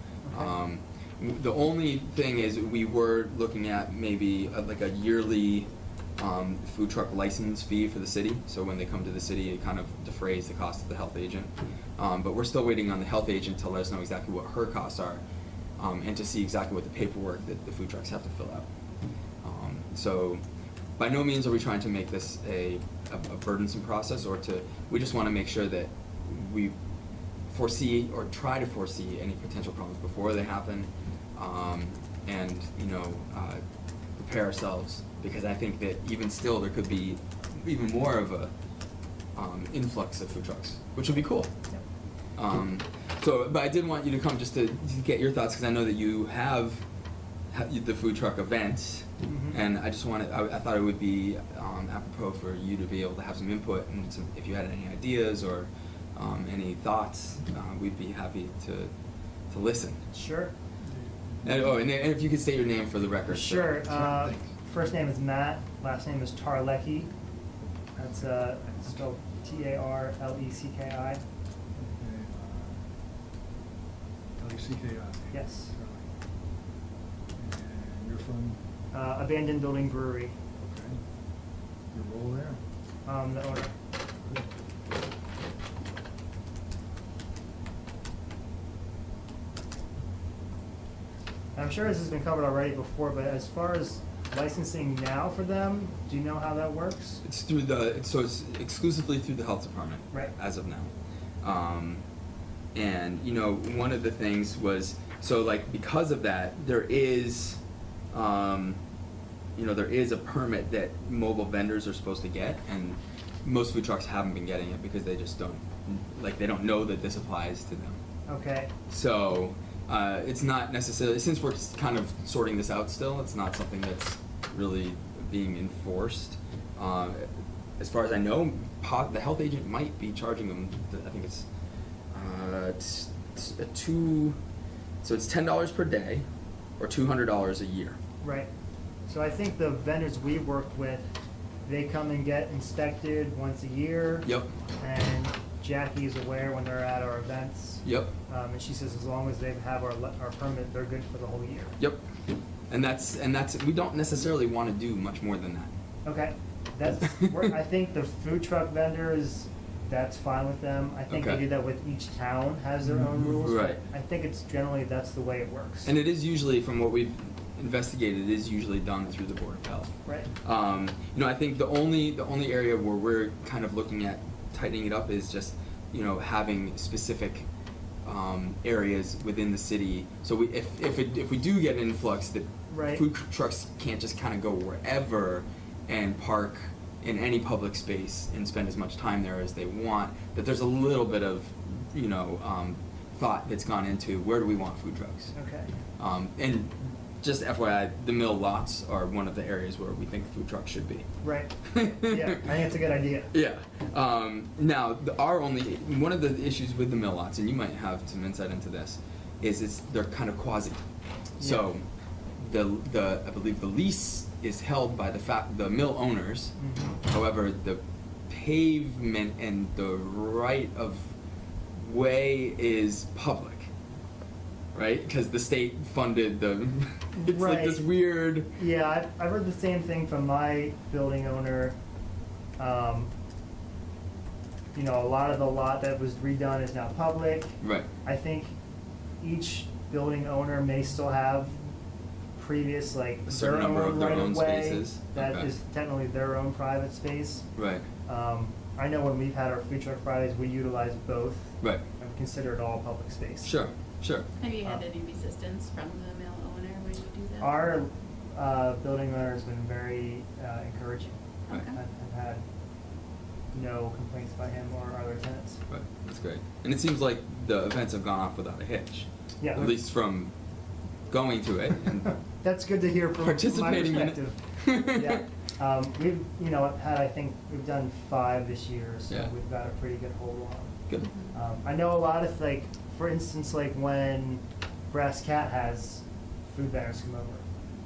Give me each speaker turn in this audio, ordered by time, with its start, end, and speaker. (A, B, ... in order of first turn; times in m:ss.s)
0:00.3-0:15.2 A
0:15.8-0:18.7 A
0:19.4-0:20.4 A
0:21.0-0:26.8 A
0:27.5-0:33.6 A
0:34.2-0:38.5 A
0:39.4-0:41.5 A
0:42.4-0:46.8 A
0:47.5-0:58.9 A
0:49.2-0:49.6 B
0:59.5-1:00.0 A
1:00.1-1:00.5 B
1:00.9-1:01.8 C
1:01.4-1:03.9 A
1:03.3-1:07.1 B
1:03.9-1:04.5 C
1:08.0-1:11.2 B
1:11.8-1:12.9 C
1:14.4-1:16.1 C
1:15.3-1:15.7 B
1:17.4-1:18.6 C
1:18.9-1:20.4 B
1:20.6-1:21.0 C
1:21.9-1:22.6 C
1:23.0-1:23.8 B
1:31.6-1:37.2 B
1:37.2-1:40.9 A
1:41.4-1:42.0 A
1:42.8-1:47.6 A
1:48.1-1:48.8 A
1:49.6-1:58.0 A
1:58.3-1:58.7 B
1:58.9-2:11.5 A
2:12.1-2:14.4 A
2:15.0-2:16.2 A
2:16.8-2:18.0 A
2:18.2-2:18.5 B
2:19.1-2:21.1 B
2:21.7-2:24.3 B
2:24.2-2:24.5 A
2:24.8-2:31.8 B
2:27.8-2:28.1 A
2:32.7-2:35.7 A
2:36.0-2:45.9 B
2:37.0-2:37.5 A
2:41.1-2:41.4 A
2:43.1-2:43.8 A
2:45.8-2:49.9 A
2:50.4-2:57.5 A
2:58.0-3:15.3 A
3:02.7-3:03.0 B
3:15.4-3:15.7 B
3:16.0-3:21.0 A
3:21.2-3:23.3 B
3:21.7-3:22.4 A
3:23.3-3:30.8 A
3:31.4-3:31.7 B
3:31.4-3:31.8 A
3:32.4-3:41.1 A
3:36.6-3:36.9 B
3:41.8-3:43.7 A
3:44.7-3:48.6 A
3:47.2-3:47.8 B
3:48.6-3:51.8 B
3:52.6-3:53.1 B
3:54.7-3:58.5 B
3:57.6-3:57.9 A
3:59.2-4:01.6 B
4:02.4-4:07.5 B
4:03.3-4:05.5 A
4:07.6-4:07.9 A
4:08.1-4:13.6 B
4:13.4-4:14.3 A
4:14.4-4:17.7 D
4:17.4-4:22.4 B
4:21.5-4:21.8 D
4:23.5-4:25.6 B
4:25.7-4:30.3 A
4:29.4-4:29.7 B
4:31.1-4:32.2 A
4:32.4-4:40.8 B
4:33.2-4:35.2 A
4:41.0-4:41.4 D
4:41.3-4:47.4 B